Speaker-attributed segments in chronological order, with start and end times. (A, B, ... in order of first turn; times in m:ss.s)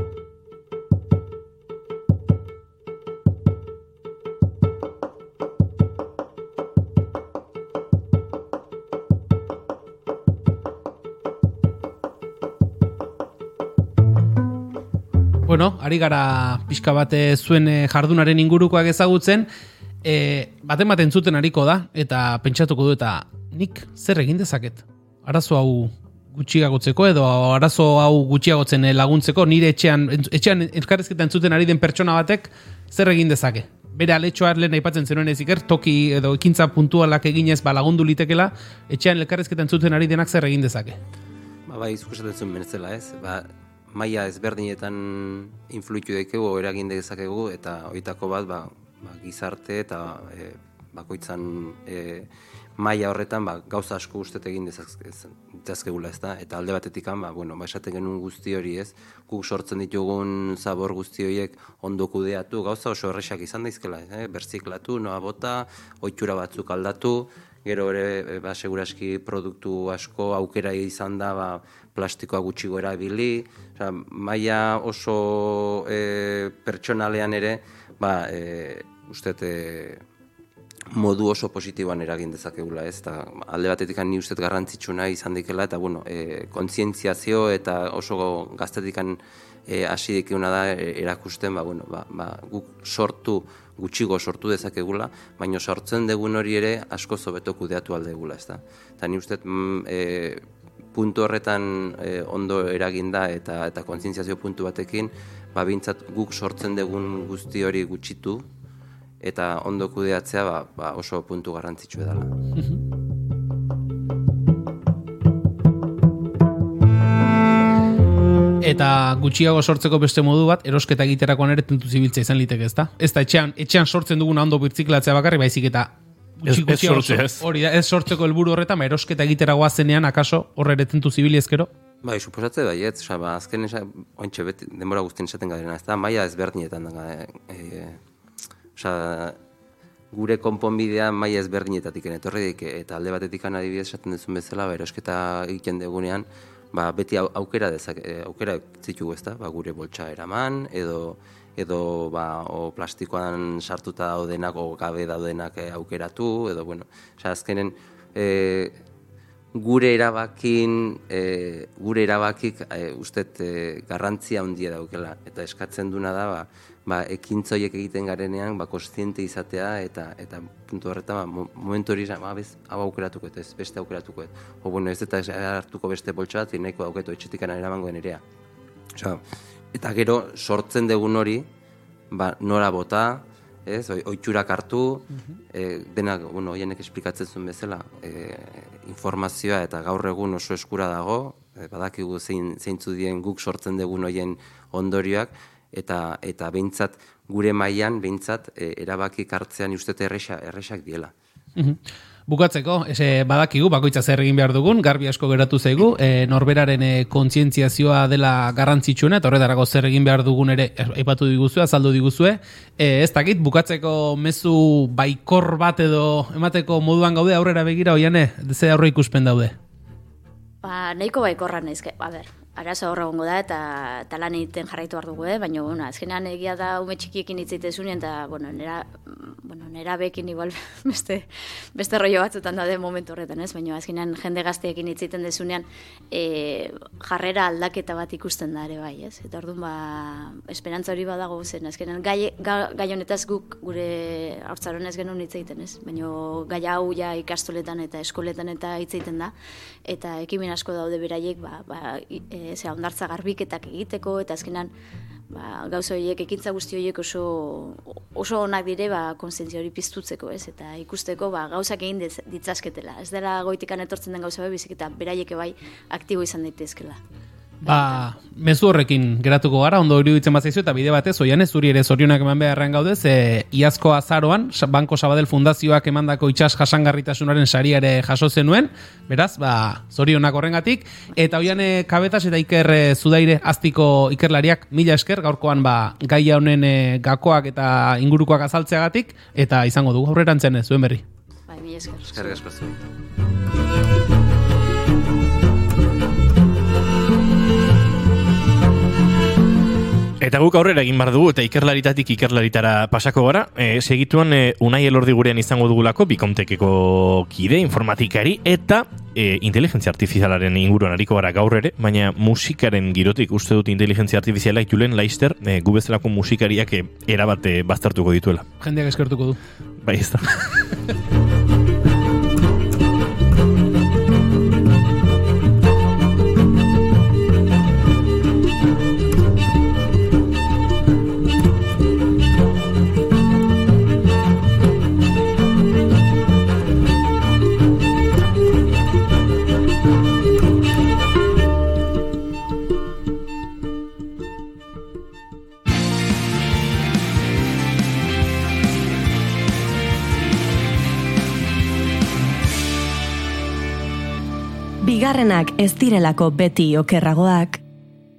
0:15.4-0:19.5 A
0:20.0-0:41.0 A
0:41.7-1:20.0 B
1:20.9-1:40.4 B
1:40.9-1:48.5 B
1:49.2-1:52.3 B
1:58.6-2:11.7 A
2:06.5-2:07.4 C
2:12.0-2:18.0 B
2:18.8-2:19.4 B
2:20.1-2:38.8 B
2:39.5-2:58.2 B
2:59.0-3:01.5 B
3:02.1-3:21.1 B
3:21.6-3:39.6 A
3:40.6-4:09.3 D
4:09.9-4:14.7 D
4:15.3-4:27.0 D
4:27.6-4:51.0 A
4:51.5-4:52.4 D
4:52.1-4:52.8 B
5:00.2-5:18.5 C
5:18.6-5:19.4 A
5:19.8-5:20.8 C
5:54.8-5:57.6 E